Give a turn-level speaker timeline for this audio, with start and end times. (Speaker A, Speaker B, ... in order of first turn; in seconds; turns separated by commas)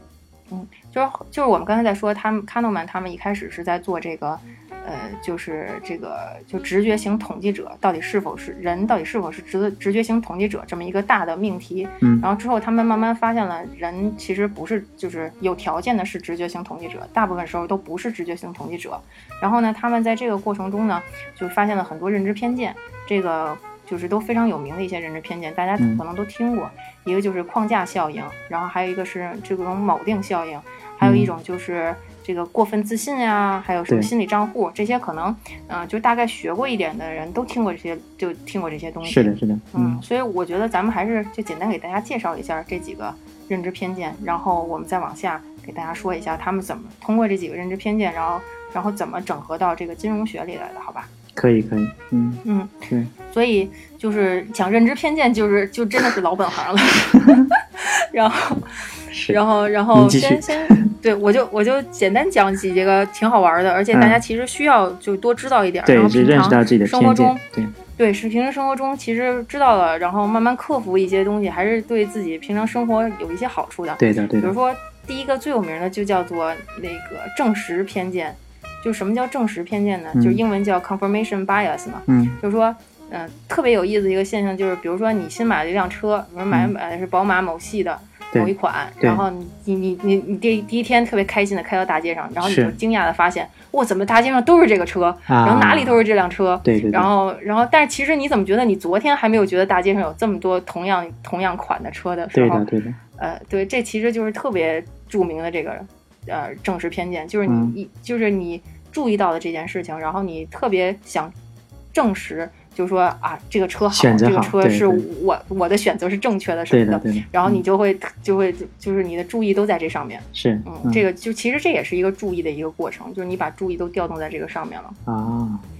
Speaker A: 0.5-51.1, Speaker B: 31.0-31.3, Speaker B: 39.0-40.0, Speaker B: 51.3-53.1, Speaker A: 52.4-67.4, Speaker B: 57.1-57.5, Speaker B: 59.1-59.4, Speaker B: 59.9-60.9, Speaker B: 63.9-64.2, Speaker B: 65.8-67.7, Speaker A: 68.0-102.6, Speaker B: 74.0-74.5, Speaker B: 80.1-80.4, Speaker B: 82.1-82.3, Speaker B: 88.3-89.2, Speaker B: 92.4-92.7, Speaker B: 95.3-96.0, Speaker B: 96.6-97.1, Speaker B: 102.3-103.0, Speaker A: 103.2-111.3, Speaker B: 107.5-107.7, Speaker A: 111.9-125.0, Speaker B: 113.9-115.0, Speaker B: 116.7-117.6, Speaker B: 120.3-121.0, Speaker B: 125.0-125.6